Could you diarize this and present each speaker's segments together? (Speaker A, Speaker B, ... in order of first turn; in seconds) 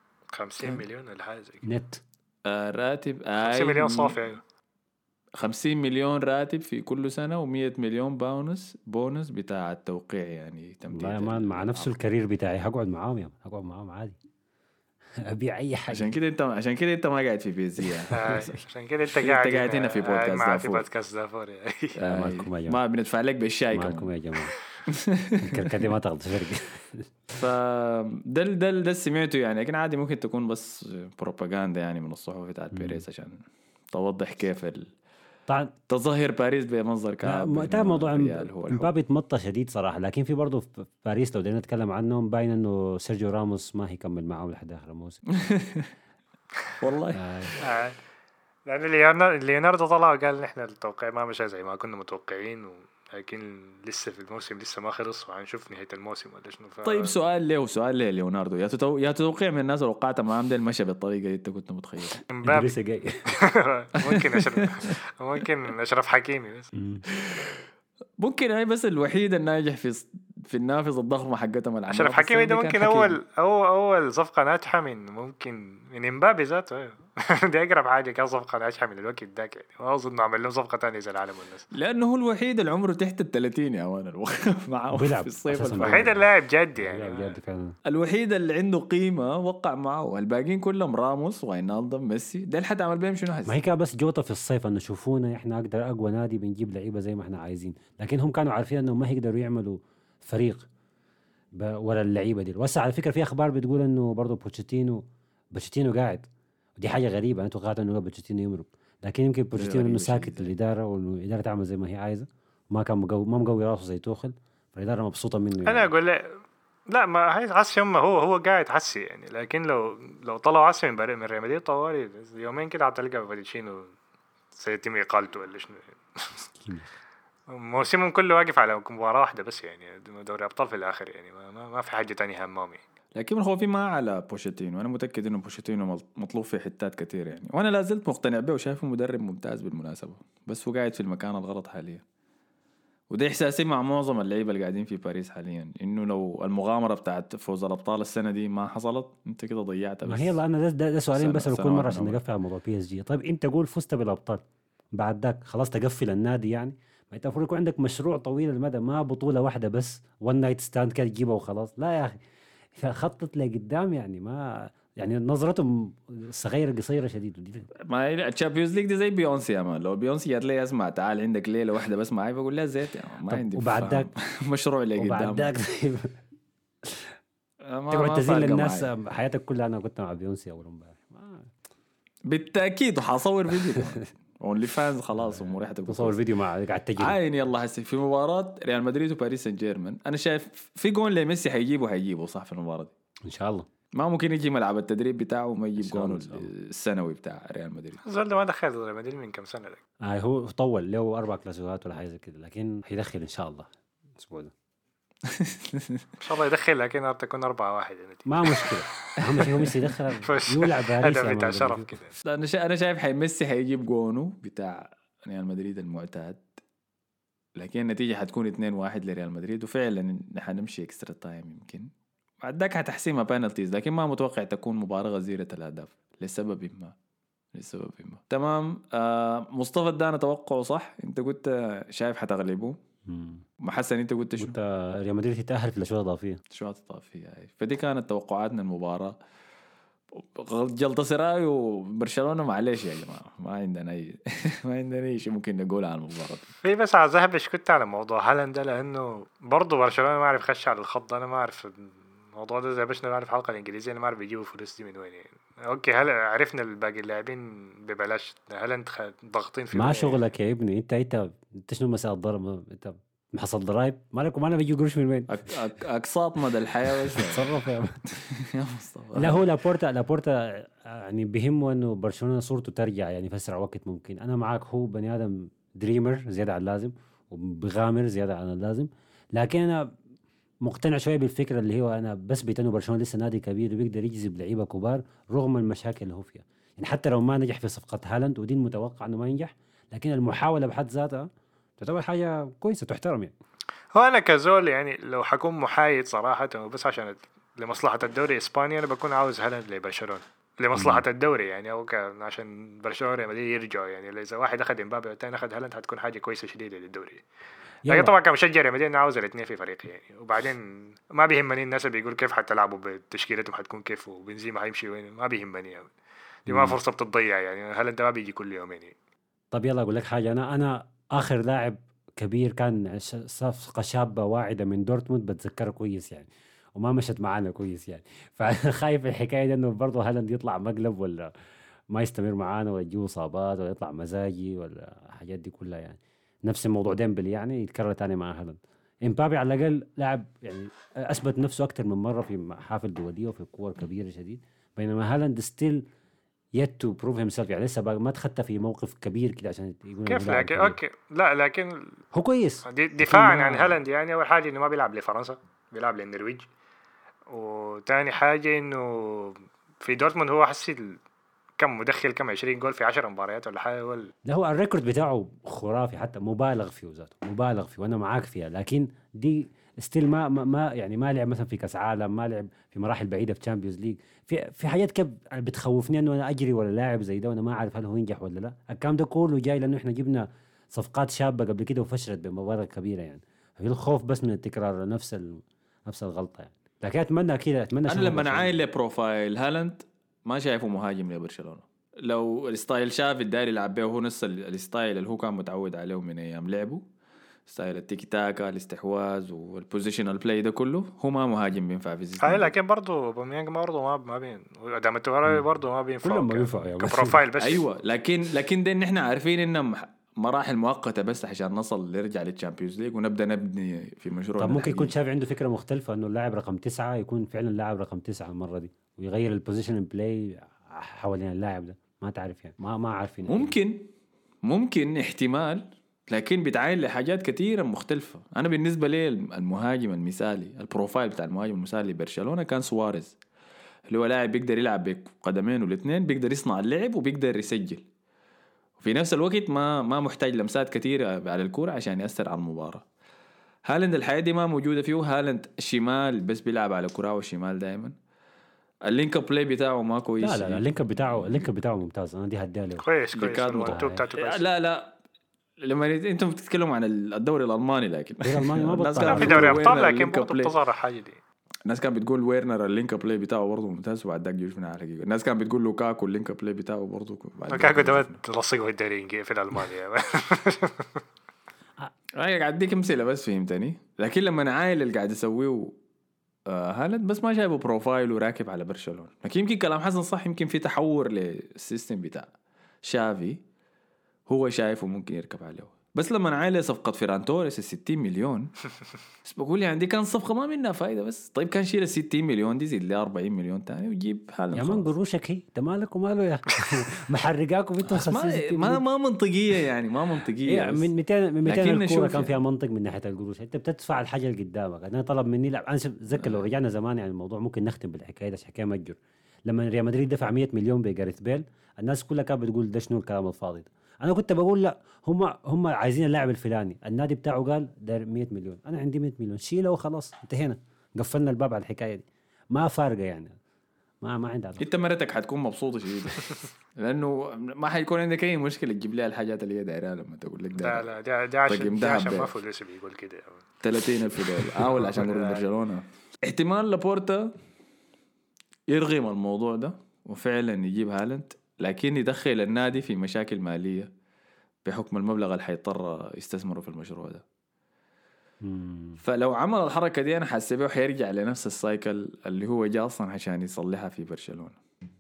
Speaker A: 0.3-1.7, 3.4-4.4, 18.1-22.0, 47.6-48.0, 48.7-57.1, 62.3-62.7, 63.3-66.7, 71.9-81.7, 85.8-87.3, 115.7-123.9, 124.5-126.4, 127.5-132.8, 198.0-199.8, 206.2-209.7, 210.2-212.1, 246.6-260.2, 293.9-307.2, 307.9-315.9, 316.5-318.9, 350.1-352.0, 352.7-356.5, 357.3-361.0, 361.6-364.1, 402.2-407.6, 452.8-454.4, 459.0-461.2, 467.5-471.0, 530.5-533.4, 534.9-535.5
Speaker B: 1.7-2.0, 10.9-14.2, 15.2-16.2, 22.1-22.8, 23.7-24.6, 25.4-27.1, 32.7-33.0, 35.5-35.7, 37.2-45.2, 47.2-47.6, 62.5-63.3, 66.7-67.0, 84.9-86.2, 86.8-87.8, 93.5-100.7, 101.5-115.9, 126.6-126.9, 150.1-154.4, 154.9-162.2, 162.8-167.7, 173.3-174.1, 175.0-176.1, 176.8-177.1, 177.9-181.5, 183.6-183.9, 185.2-187.2, 193.2-193.7, 195.8-196.5, 200.0-204.5, 208.3-211.9, 233.1-233.4, 234.4-236.4, 259.7-265.5, 267.0-268.0, 269.2-279.9, 280.6-293.3, 300.8-301.0, 307.9-308.2, 316.5-316.8, 319.5-331.3, 331.9-345.8, 346.5-350.8, 352.1-353.8, 364.2-388.6, 406.0-407.2, 414.4-423.5, 450.2-452.8, 453.7-454.1, 458.2-459.7, 494.5-498.8, 500.5-523.4, 524.0-524.6, 548.4-549.0
Speaker C: 2.5-4.2, 5.4-11.9, 15.9-18.6, 19.1-20.9, 22.0-24.1, 24.9-25.8, 27.3-34.9, 35.9-38.9, 45.3-45.9, 46.8-47.6, 56.8-62.2, 64.0-64.9, 67.1-67.6, 68.2-73.2, 81.7-86.2, 87.9-93.6, 109.5-110.5, 133.2-142.0, 143.1-150.4, 151.1-152.2, 167.9-175.5, 177.7-178.9, 182.3-186.2, 187.0-192.9, 193.9-198.0, 205.2-206.1, 212.2-216.4, 217.6-221.9, 222.4-226.9, 227.5-232.8, 233.6-234.6, 236.5-239.2, 240.1-246.5, 265.3-267.5, 268.1-269.5, 387.9-396.8, 397.5-402.5, 407.4-414.9, 423.3-423.9, 424.4-433.2, 433.9-437.8, 438.8-442.9, 443.6-447.9, 448.9-451.5, 453.1-454.9, 455.6-460.6, 461.7-468.2, 472.2-475.8, 476.5-482.3, 482.8-483.4, 484.3-488.5, 489.2-494.9, 497.9-500.9, 501.4-502.4, 506.2-506.4, 524.6-530.9, 531.5-532.3, 533.6-537.3, 538.7-543.9, 544.6-547.2, 549.0-554.6